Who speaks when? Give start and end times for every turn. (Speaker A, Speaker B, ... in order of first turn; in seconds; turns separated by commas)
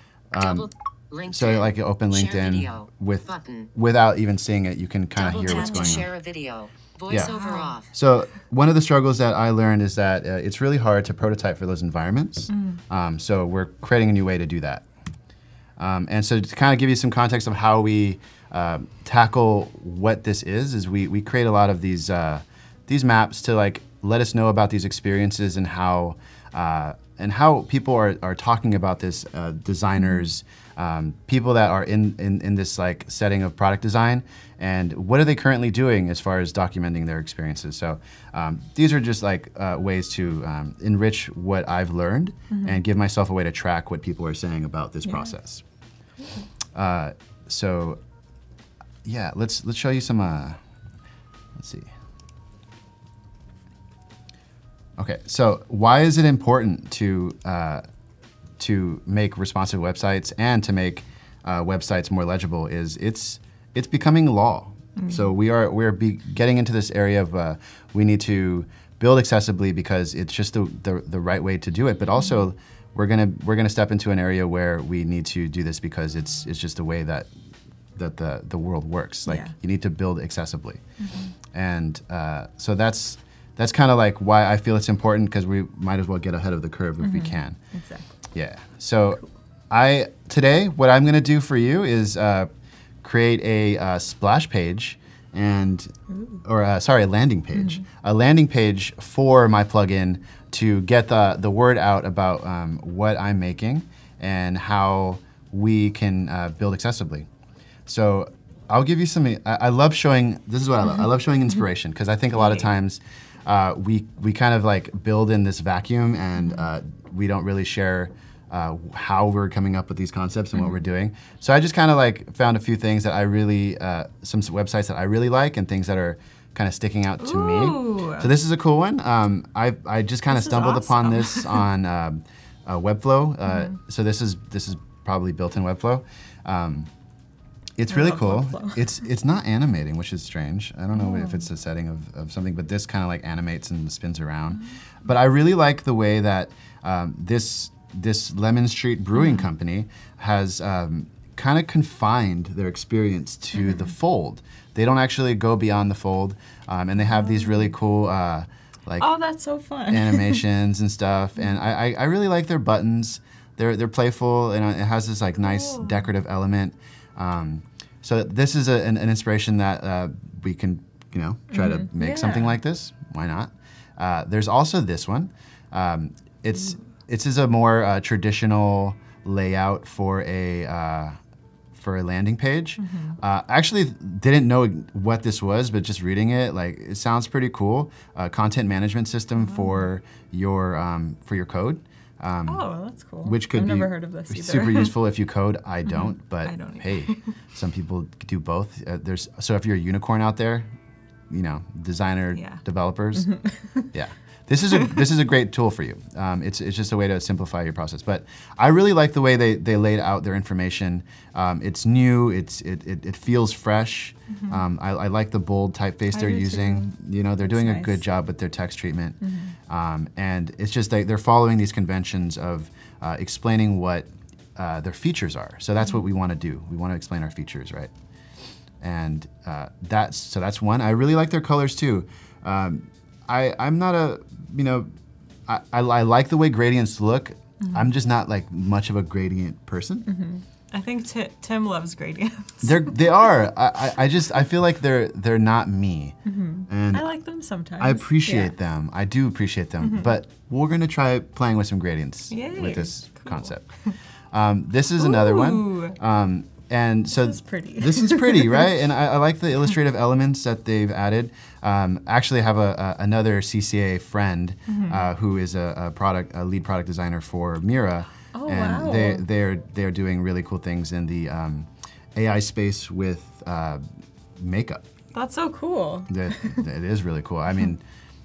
Speaker A: 0.3-0.7, Speaker B: 0.4-3.7, Speaker A: 1.3-6.1, Speaker B: 5.2-7.9, Speaker C: 5.5-6.0, Speaker C: 7.2-7.8, Speaker A: 7.9-14.8, Speaker C: 12.5-12.8, Speaker A: 15.8-45.6, Speaker C: 42.5-42.8, Speaker C: 45.1-45.3, Speaker A: 46.7-48.0, Speaker A: 49.0-50.6, Speaker A: 51.5-51.9, Speaker A: 55.0-57.8, Speaker A: 58.6-77.3, Speaker C: 65.0-65.3, Speaker A: 78.0-80.8, Speaker C: 79.2-79.5, Speaker C: 81.0-81.3, Speaker A: 81.5-87.6, Speaker C: 87.0-88.1, Speaker A: 88.3-92.5, Speaker A: 93.0-107.3, Speaker C: 96.1-96.4, Speaker C: 97.5-97.8, Speaker A: 107.8-136.9, Speaker C: 112.3-112.7, Speaker C: 127.2-128.3, Speaker C: 130.3-131.6, Speaker C: 133.4-133.8, Speaker A: 137.8-159.1, Speaker C: 137.9-138.8, Speaker C: 140.9-141.4, Speaker C: 149.2-149.4, Speaker C: 157.2-157.6, Speaker C: 159.0-160.4, Speaker A: 159.9-181.2, Speaker C: 165.4-166.1, Speaker C: 171.5-172.6, Speaker A: 181.7-192.6, Speaker C: 182.8-183.2, Speaker C: 189.4-189.8, Speaker C: 192.5-194.9, Speaker A: 193.2-200.7, Speaker C: 195.9-197.3, Speaker A: 201.3-203.3, Speaker C: 202.3-202.6, Speaker C: 203.2-203.9, Speaker A: 203.9-227.9, Speaker C: 214.3-214.6, Speaker C: 216.1-218.0, Speaker C: 219.2-219.6, Speaker A: 228.8-234.9, Speaker A: 235.5-240.1, Speaker C: 240.1-242.9, Speaker A: 242.6-246.2, Speaker C: 246.2-248.5, Speaker A: 246.7-247.1, Speaker A: 247.8-253.7, Speaker C: 252.3-253.9, Speaker A: 254.3-273.8, Speaker C: 255.0-256.0, Speaker C: 257.1-258.7, Speaker C: 264.7-265.0, Speaker C: 268.3-269.2, Speaker A: 274.4-274.8, Speaker C: 275.1-276.6, Speaker A: 276.1-277.8